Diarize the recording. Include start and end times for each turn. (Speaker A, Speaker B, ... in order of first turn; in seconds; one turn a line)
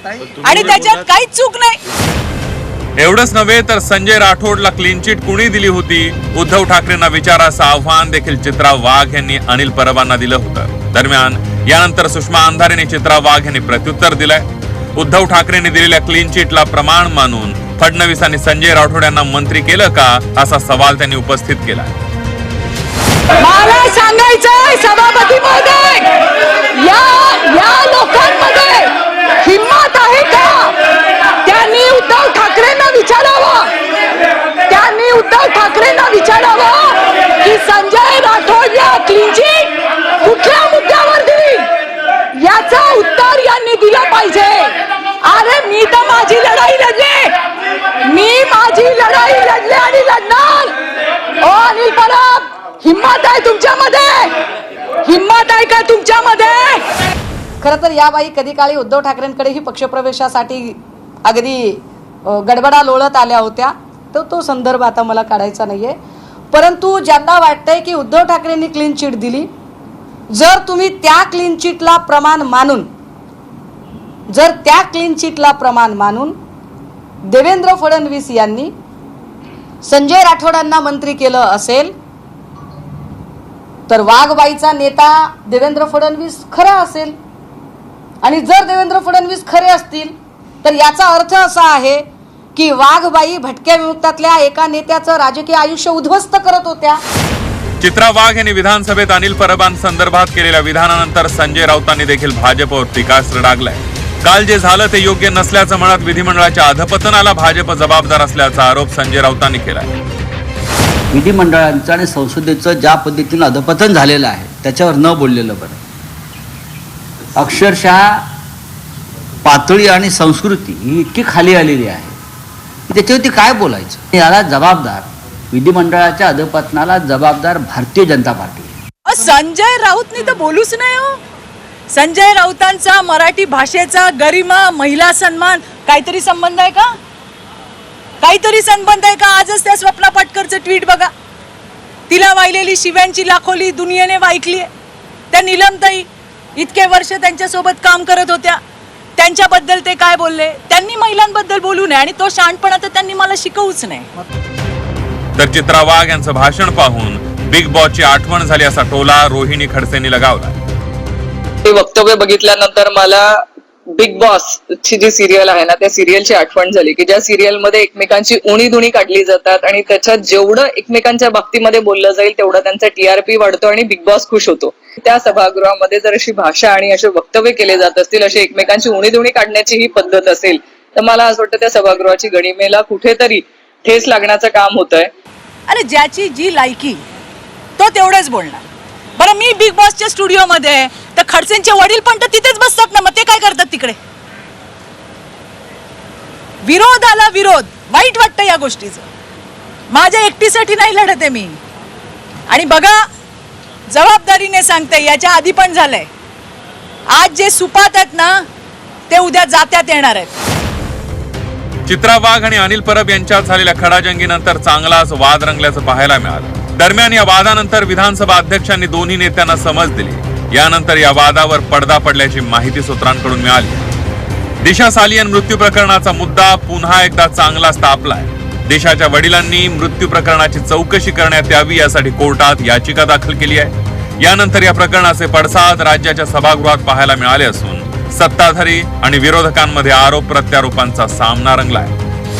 Speaker A: 0.4-1.8
Speaker B: 3.0-14.5
Speaker B: 15.0-21.9
Speaker A: 23.4-26.1
Speaker A: 26.7-30.8
Speaker A: 31.4-33.7
Speaker A: 34.7-41.7
Speaker A: 42.3-47.3
Speaker A: 48.0-50.7
Speaker A: 51.4-54.3
Speaker A: 55.0-56.9
Speaker C: 57.6-66.0
Speaker C: 66.5-69.5
Speaker C: 70.3-72.9
Speaker C: 74.3-76.3
Speaker C: 77.3-78.7
Speaker C: 79.9-81.9
Speaker C: 83.9-87.2
Speaker C: 88.2-92.0
Speaker C: 92.6-97.0
Speaker B: 97.8-109.9
Speaker D: 111.1-115.8
Speaker D: 117.4-118.3
Speaker D: 119.4-122.2
Speaker D: 122.9-128.7
Speaker A: 129.1-131.2
Speaker A: 131.9-136.9
Speaker A: 138.2-141.1
Speaker A: 142.1-144.7
Speaker A: 145.3-148.6
Speaker A: 149.2-154.1
Speaker B: 155.4-160.6
Speaker E: 161.7-163.4
Speaker E: 163.9-185.1
Speaker A: 185.7-187.0
Speaker A: 187.8-188.6
Speaker A: 189.2-194.0
Speaker A: 196.6-199.0
Speaker A: 199.9-201.6
Speaker A: 202.5-203.0
Speaker A: 203.9-206.1
Speaker A: 207.1-208.4
Speaker A: 209.1-210.3
Speaker B: 211.9-223.8
Speaker B: 224.6-241.9